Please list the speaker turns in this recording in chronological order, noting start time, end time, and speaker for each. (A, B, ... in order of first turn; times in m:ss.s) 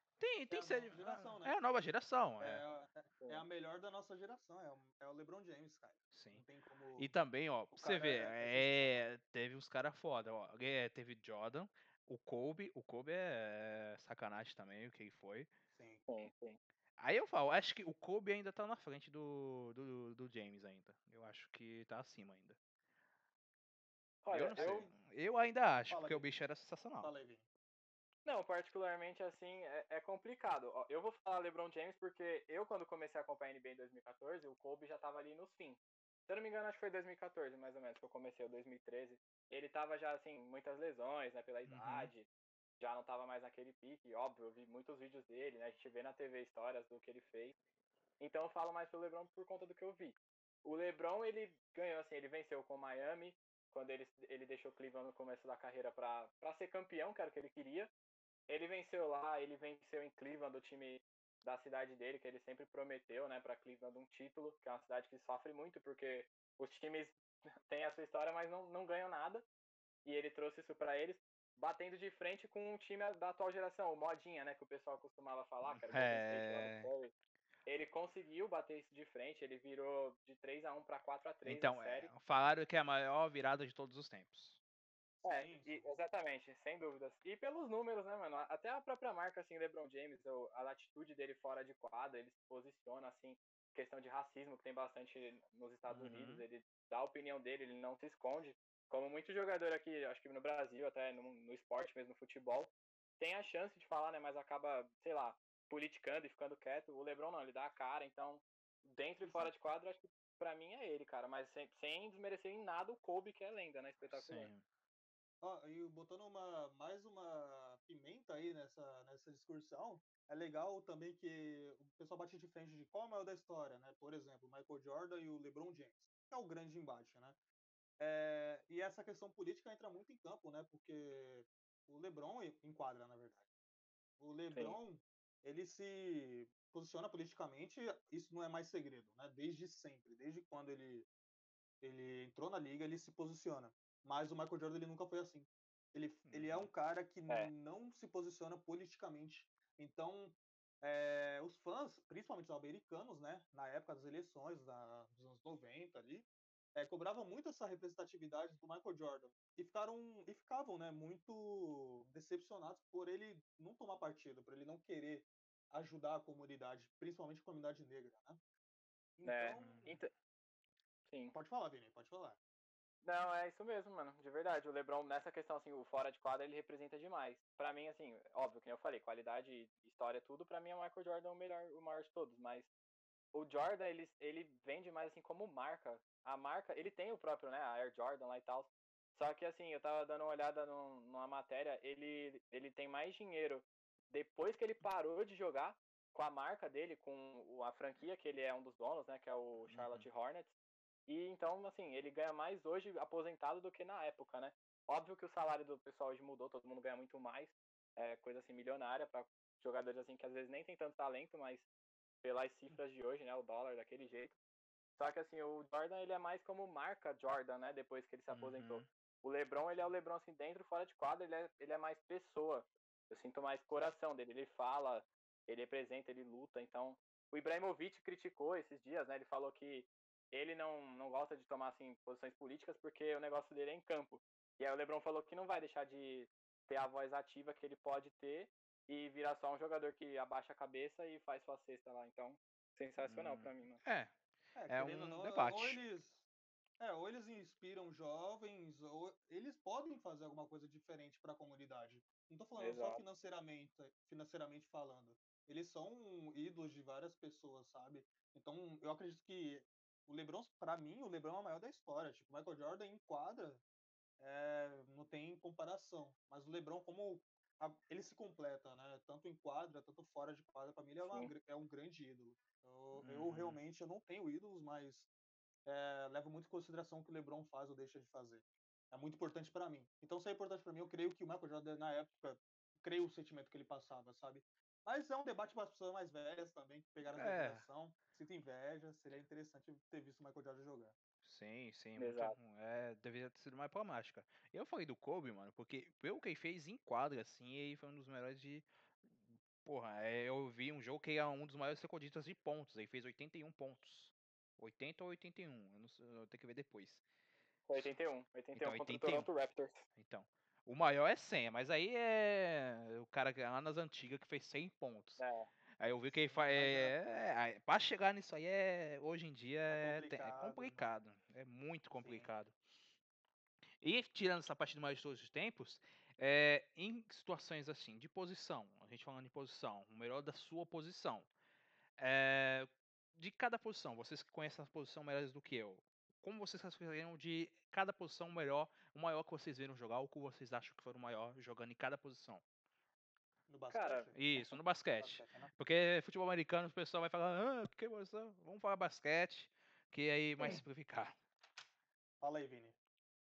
0:00.2-0:02.6 A
0:00.5-0:01.6 B
0:02.4-0:07.1 B
0:06.1-0:06.4 A
0:07.0-0:15.5 A
0:07.7-0:09.0 B
0:15.7-0:16.1 B
0:16.1-0:16.6 C
0:17.0-0:22.6 A
0:24.2-0:24.9 C
0:24.3-0:27.1 A
0:24.5-0:25.0 B
0:25.9-0:26.3 B
0:27.0-0:27.4 B
0:28.2-0:42.3 C
0:41.7-0:42.1 A
0:42.8-0:47.6 C
0:48.2-0:57.9 C
0:58.5-1:09.4 C
1:10.0-1:17.1 C
1:15.7-1:16.9 A
1:17.7-1:22.1 C
1:21.4-1:24.6 A
1:25.2-1:25.9 B
1:25.2-1:54.5 C
1:35.9-1:36.4 A
1:49.2-1:49.6 B
1:54.1-1:54.6 A
1:55.4-2:07.4 B
2:08.0-2:13.5 B
2:14.2-2:21.1 B
2:21.8-2:48.4 B
2:26.3-2:26.7 A
2:49.2-2:49.9 B
2:49.2-2:50.1 C
2:49.6-2:50.0 A
2:51.1-2:51.3 C
2:51.3-2:52.4 B
2:53.0-3:02.7 C
3:03.3-3:20.5 C
3:19.7-3:20.1 A
3:21.1-3:31.7 C
3:32.2-3:34.4 C
3:35.0-4:03.8 C
3:38.3-3:38.9 A
4:03.0-4:04.2 A
4:04.6-4:06.2 B
4:04.7-4:05.8 A
4:06.8-4:23.6 B
4:12.6-4:13.0 C
4:24.2-4:35.1 B
4:31.1-4:31.3 C
4:33.0-4:33.6 A
4:35.7-4:51.0 B
4:47.0-4:47.6 A
4:51.2-5:07.0 A
4:52.0-4:52.4 C
5:07.7-5:09.9 C
5:08.6-5:09.3 A
5:10.0-5:15.2 A
5:15.2-5:15.5 C
5:15.8-5:22.6 A
5:16.1-5:17.0 B
5:19.7-5:20.9 B
5:22.0-5:22.3 B
5:23.8-5:31.3 A
5:32.0-5:42.4 A
5:43.5-5:45.5 B
5:43.7-5:44.1 C
5:44.2-5:51.2 A
5:52.2-5:52.8 B